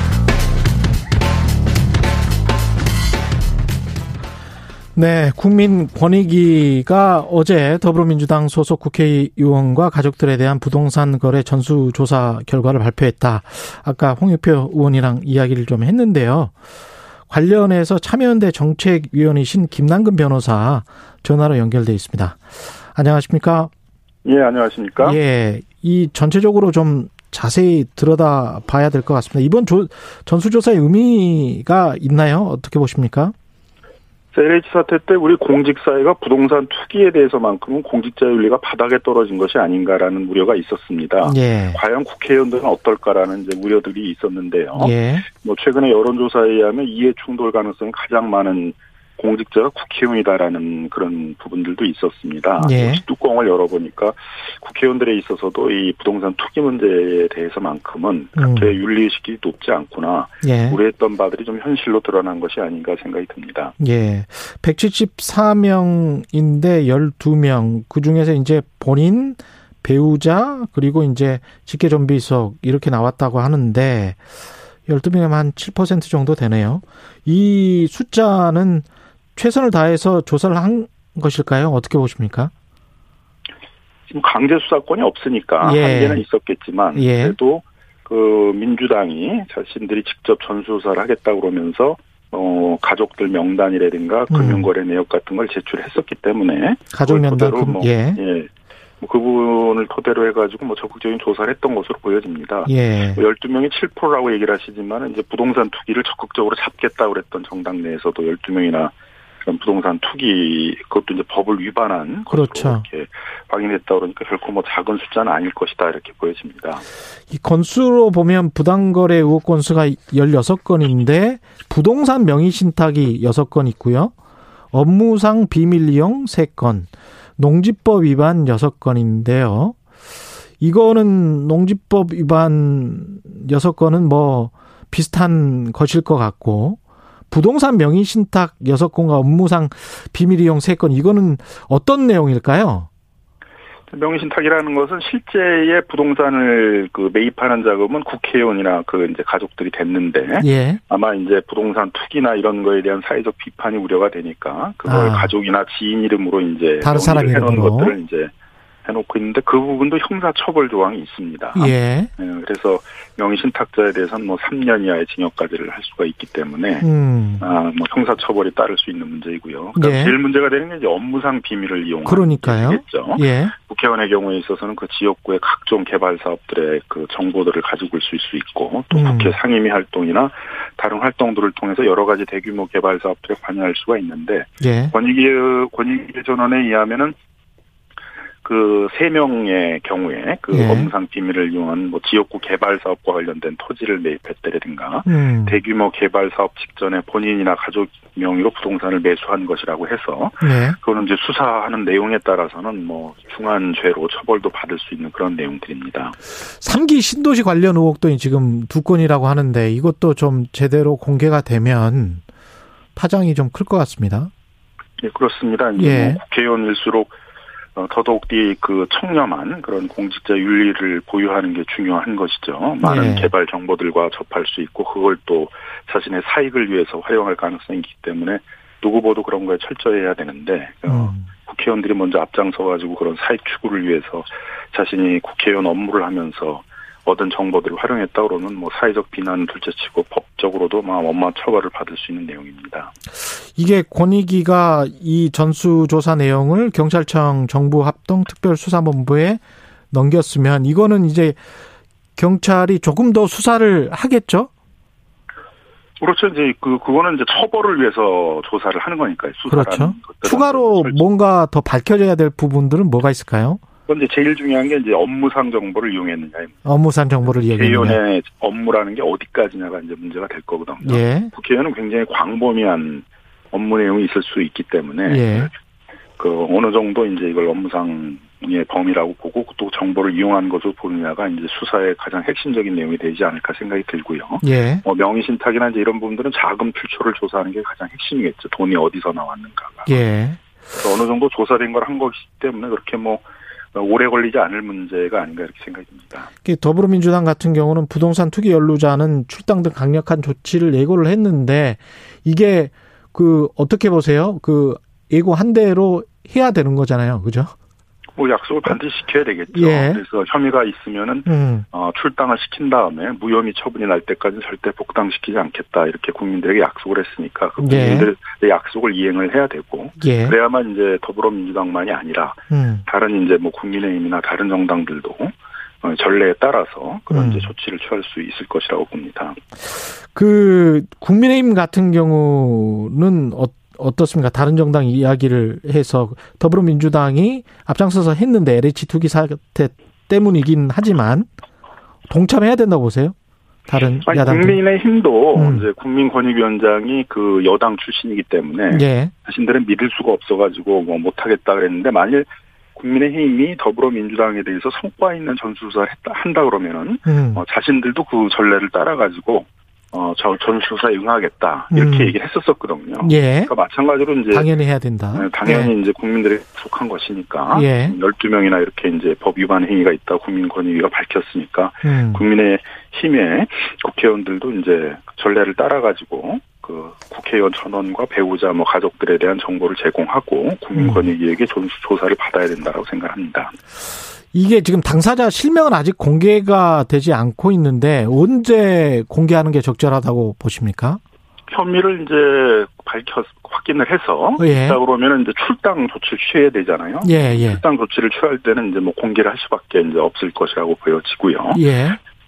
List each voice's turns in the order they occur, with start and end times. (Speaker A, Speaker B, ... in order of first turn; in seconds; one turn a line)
Speaker A: 4.9-16.5
Speaker A: 17.3-23.7
Speaker B: 24.2-25.2
Speaker A: 25.0-33.3
Speaker B: 34.3-63.7
Speaker A: 41.2-41.8
Speaker A: 44.8-45.2
Speaker A: 52.6-53.0
Speaker A: 58.4-58.7
Speaker A: 60.4-60.8
Speaker A: 63.8-74.2
Speaker A: 74.9-82.5
Speaker B: 84.1-116.8
Speaker A: 85.6-86.2
Speaker A: 86.9-87.3
Speaker A: 94.3-94.7
Speaker A: 96.9-98.2
Speaker A: 102.7-103.2
Speaker A: 112.3-112.8
Speaker A: 117.3-124.1
Speaker A: 124.7-129.8
Speaker A: 130.6-136.8
Speaker A: 137.3-142.9
Speaker B: 143.9-158.3
Speaker A: 150.4-150.8
Speaker A: 154.8-155.3
Speaker A: 156.8-157.9
Speaker B: 158.8-166.9
Speaker A: 161.5-162.1
Speaker A: 166.8-167.4
Speaker B: 167.4-187.2
Speaker A: 169.8-170.1
Speaker A: 172.0-173.5
Speaker A: 178.9-179.3
Speaker A: 184.6-184.9
Speaker B: 188.4-206.2
Speaker A: 190.5-190.9
Speaker A: 195.1-195.6
Speaker A: 200.4-200.8
Speaker A: 206.6-212.2
Speaker A: 212.9-214.3
Speaker B: 215.0-217.1
Speaker A: 215.8-216.2
Speaker B: 217.7-242.9
Speaker A: 222.8-223.3
Speaker A: 230.9-231.3
Speaker A: 243.6-251.4
Speaker A: 252.2-254.5
Speaker B: 256.0-261.0
Speaker A: 259.5-263.6
Speaker B: 263.9-266.6
Speaker A: 266.6-268.0
Speaker B: 267.3-275.5
Speaker A: 270.8-271.3
Speaker A: 275.0-275.5
Speaker B: 276.2-290.0
Speaker A: 284.4-284.8
Speaker A: 289.9-290.4
Speaker B: 290.7-296.3
Speaker A: 296.4-307.5
Speaker B: 308.1-329.4
Speaker A: 309.5-310.0
Speaker A: 311.3-311.6
Speaker A: 317.6-318.1
Speaker A: 320.0-320.4
Speaker A: 322.5-322.8
Speaker A: 327.1-327.5
Speaker A: 330.1-341.3
Speaker A: 342.1-343.1
Speaker A: 343.7-344.6
Speaker B: 344.0-364.5
Speaker A: 345.3-345.6
Speaker A: 348.7-349.1
Speaker A: 357.1-357.4
Speaker A: 361.7-362.1
Speaker A: 363.0-363.5
Speaker A: 364.3-365.7
Speaker B: 365.1-383.5
Speaker A: 367.5-367.9
Speaker A: 371.8-372.2
Speaker A: 380.7-381.1
Speaker A: 384.3-391.0
Speaker B: 391.5-401.6
Speaker A: 394.4-394.8
Speaker A: 397.0-397.6
Speaker A: 401.5-402.0